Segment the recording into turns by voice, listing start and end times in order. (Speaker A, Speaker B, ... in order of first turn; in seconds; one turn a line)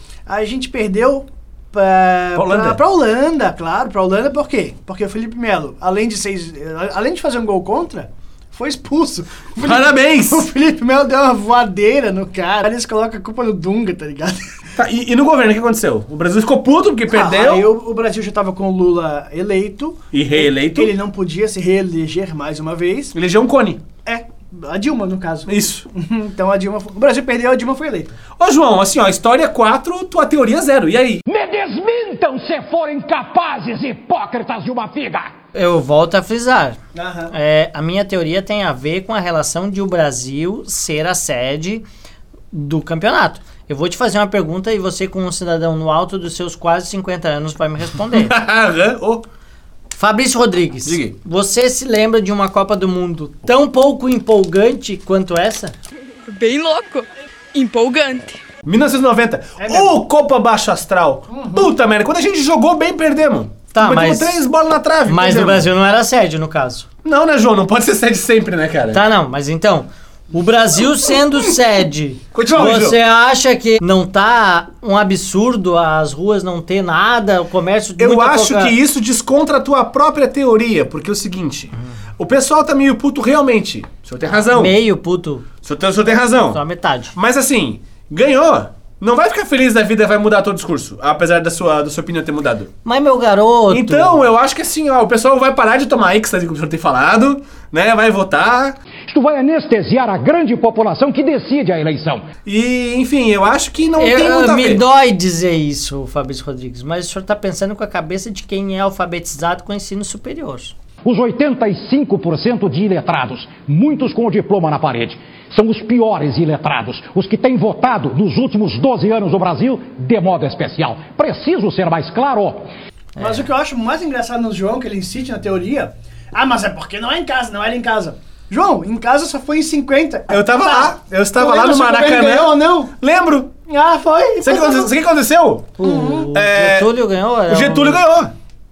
Speaker A: 0.3-14.6
Speaker B: 2.4-2.8
Speaker B: 9.6-10.5
Speaker B: 14.8-17.7
Speaker A: 17.1-23.1
Speaker B: 20.1-20.9
Speaker B: 23.1-23.9
Speaker A: 24.0-28.2
Speaker B: 25.5-25.9
Speaker B: 28.4-31.2
Speaker C: 31.3-35.3
Speaker D: 35.5-36.8
Speaker A: 37.0-37.3
Speaker D: 37.3-41.9
Speaker D: 42.5-48.4
Speaker B: 48.1-49.2
Speaker D: 50.0-55.7
Speaker B: 50.9-51.2
Speaker E: 56.3-58.4
Speaker B: 58.6-65.7
Speaker A: 59.6-60.0
Speaker A: 61.3-61.7
Speaker D: 63.7-64.4
Speaker D: 65.1-66.9
Speaker B: 67.0-69.0
Speaker D: 68.9-78.8
Speaker B: 72.3-73.0
Speaker B: 78.0-84.8
Speaker D: 84.3-85.5
Speaker B: 85.6-86.6
Speaker D: 86.1-87.2
Speaker B: 87.1-92.7
Speaker D: 92.8-94.2
Speaker B: 93.7-98.8
Speaker C: 99.1-102.3
Speaker B: 102.5-104.8
Speaker D: 104.0-110.8
Speaker C: 111.0-122.7
Speaker A: 123.2-132.9
Speaker B: 130.3-133.5
Speaker A: 133.7-134.9
Speaker B: 134.4-135.8
Speaker D: 135.8-138.0
Speaker A: 135.8-136.3
Speaker B: 136.3-136.9
Speaker B: 137.5-138.3